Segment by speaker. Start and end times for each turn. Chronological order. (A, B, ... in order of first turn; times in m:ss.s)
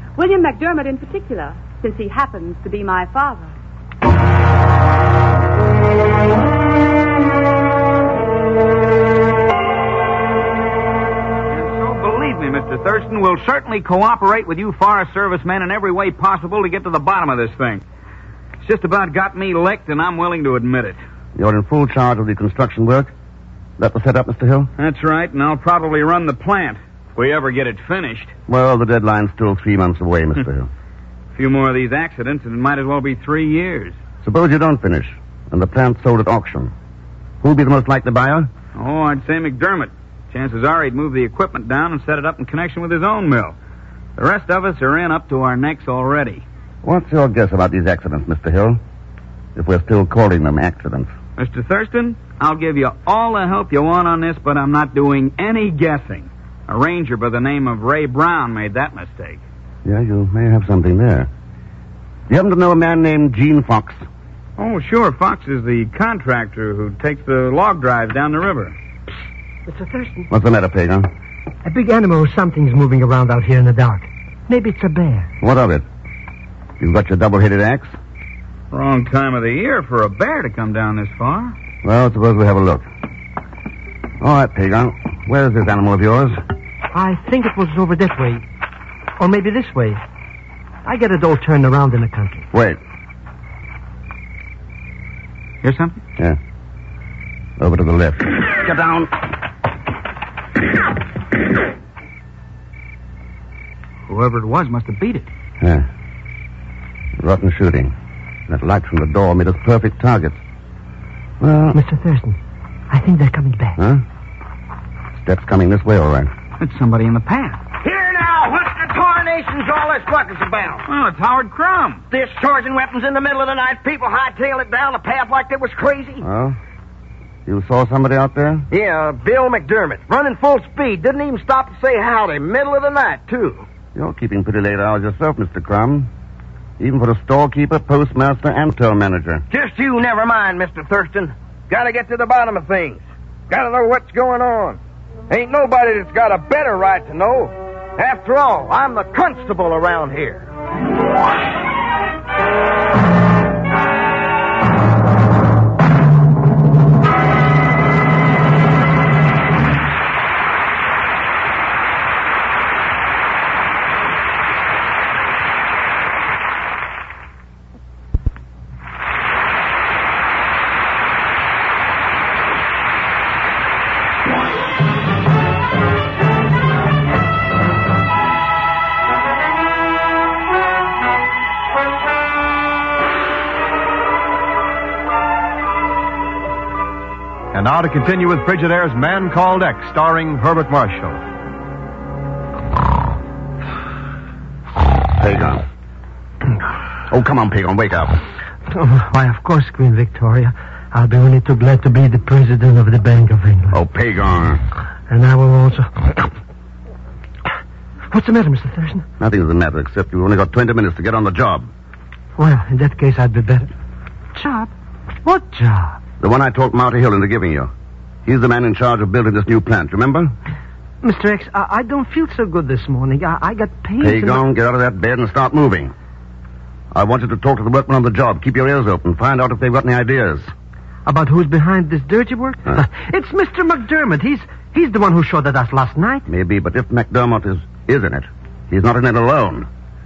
0:00.2-0:03.5 A
0:11.5-0:17.8 B
0:18.6-0:21.0 B
0:21.4-0:23.1 C
0:23.8-0:24.7 C
0:24.8-0:28.3 B
0:28.5-0:30.7 C
0:31.4-0:34.0 B
0:34.2-0:36.7 C
0:37.4-0:38.5 C
0:38.8-0:43.6 B
0:44.2-0:46.4 B
0:46.8-0:48.8 C
0:49.6-0:51.1 C
0:51.4-0:59.4 B
0:59.8-1:01.3 C
1:02.3-1:04.0 C
1:04.6-1:08.8 B
1:09.7-1:10.3 D
1:10.3-1:11.1 C
1:11.6-1:15.3 D
1:15.4-1:15.8 C
1:16.8-1:17.9 C
1:18.7-1:21.6 B
1:21.8-1:22.9 C
1:24.2-1:26.4 C
1:26.9-1:28.4 D
1:29.2-1:30.0 D
1:30.8-1:32.5 D
1:32.5-1:32.8 C
1:35.6-1:36.0 B
1:37.6-1:39.2 C
1:44.1-1:45.3 B
1:45.6-1:45.9 C
1:47.2-1:47.9 C
1:48.5-1:50.4 C
1:51.4-1:51.8 C
1:51.7-1:52.4 D
1:52.9-1:53.8 D
1:53.8-1:54.0 C
1:55.2-1:56.3 C
1:56.6-1:57.6 B
1:57.8-2:00.8 E
2:00.9-2:02.0 B
2:02.1-2:06.2 E
2:06.2-2:06.6 C
2:07.5-2:08.7 C
2:08.7-2:13.6 E
2:14.0-2:16.1 C
2:16.8-2:19.4 C
2:19.5-2:24.8 E
2:25.3-2:30.5 E
3:07.5-3:11.2 F
3:15.2-3:15.6 C
3:17.1-3:18.2 C
3:18.7-3:23.8 D
3:23.7-3:24.6 C
3:25.1-3:26.3 D
3:28.1-3:29.1 D
3:29.2-3:31.7 C
3:32.4-3:33.7 D
3:34.4-3:34.7 D
3:35.2-3:36.0 D
3:36.2-3:37.7 C
3:38.3-3:40.3 C
3:41.0-3:44.4 D
3:44.0-3:45.9 C
3:46.9-3:50.5 C
3:51.1-3:56.3 D
3:56.3-3:59.7 C